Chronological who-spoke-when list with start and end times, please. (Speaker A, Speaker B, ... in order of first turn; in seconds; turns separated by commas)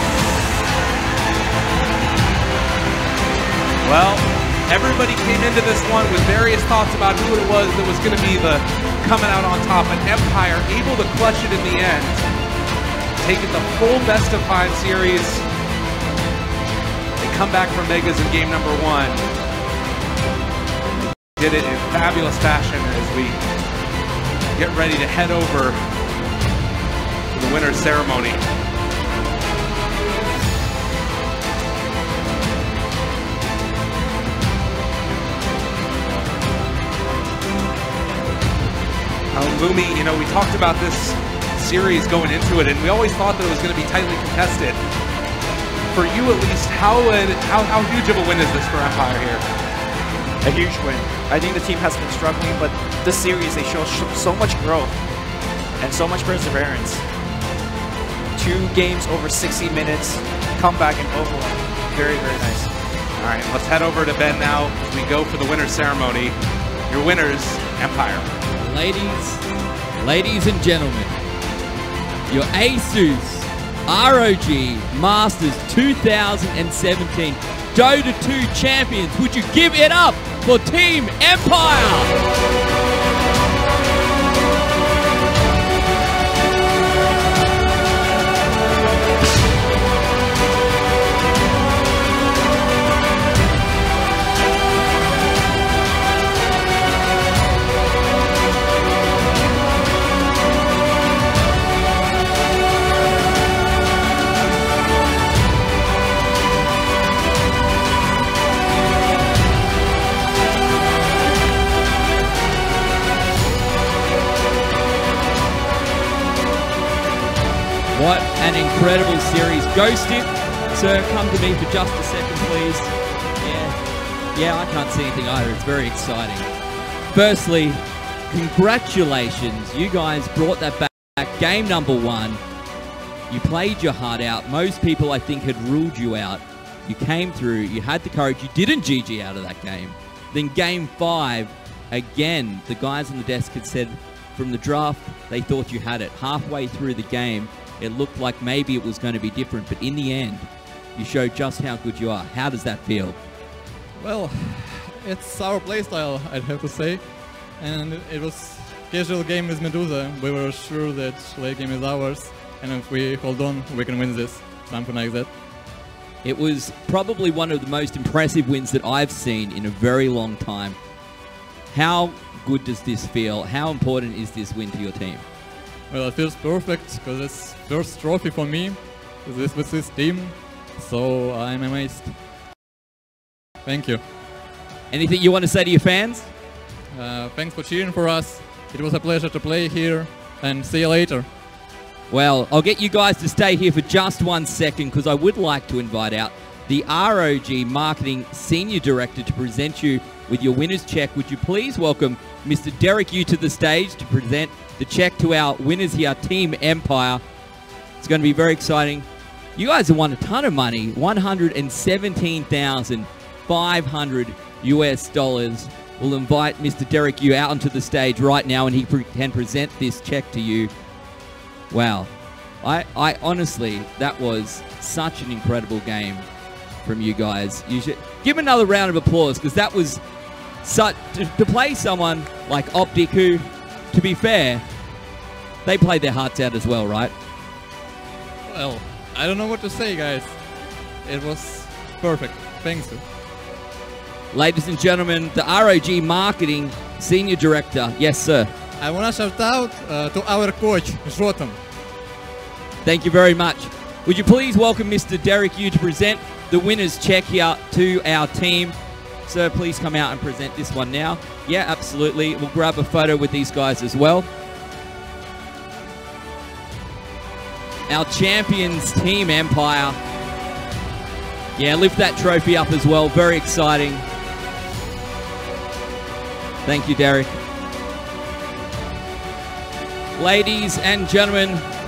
Speaker A: 3.8-12.2, Speaker A: 13.2-15.4, Speaker A: 17.2-19.2, Speaker A: 21.4-23.4, Speaker A: 24.6-25.8, Speaker A: 27.3-28.4, Speaker A: 39.3-44.8, Speaker A: 45.9-49.4, Speaker B: 50.4-55.0, Speaker B: 55.8-57.0, Speaker B: 58.4-62.7, Speaker A: 63.2-66.3, Speaker A: 66.9-68.3, Speaker C: 68.6-69.5, Speaker C: 70.0-71.1, Speaker C: 72.3-82.1, Speaker C: 117.9-123.7, Speaker C: 124.3-126.5, Speaker C: 127.1-132.4, Speaker C: 133.3-153.2, Speaker D: 154.0-165.3, Speaker C: 166.2-170.8, Speaker C: 171.7-175.2, Speaker D: 175.9-182.2, Speaker D: 183.6-184.0, Speaker C: 184.9-186.3, Speaker D: 186.9-191.3, Speaker C: 192.1-207.2, Speaker C: 208.0-220.7, Speaker C: 221.7-222.1, Speaker C: 222.6-226.3, Speaker C: 226.8-230.0, Speaker C: 230.6-234.6, Speaker C: 235.6-237.1, Speaker D: 238.5-240.4, Speaker D: 241.0-243.0, Speaker C: 244.3-248.5, Speaker D: 248.8-251.6, Speaker C: 252.8-264.3, Speaker C: 267.9-270.0, Speaker C: 271.6-274.0, Speaker C: 276.6-277.3, Speaker C: 280.2-281.6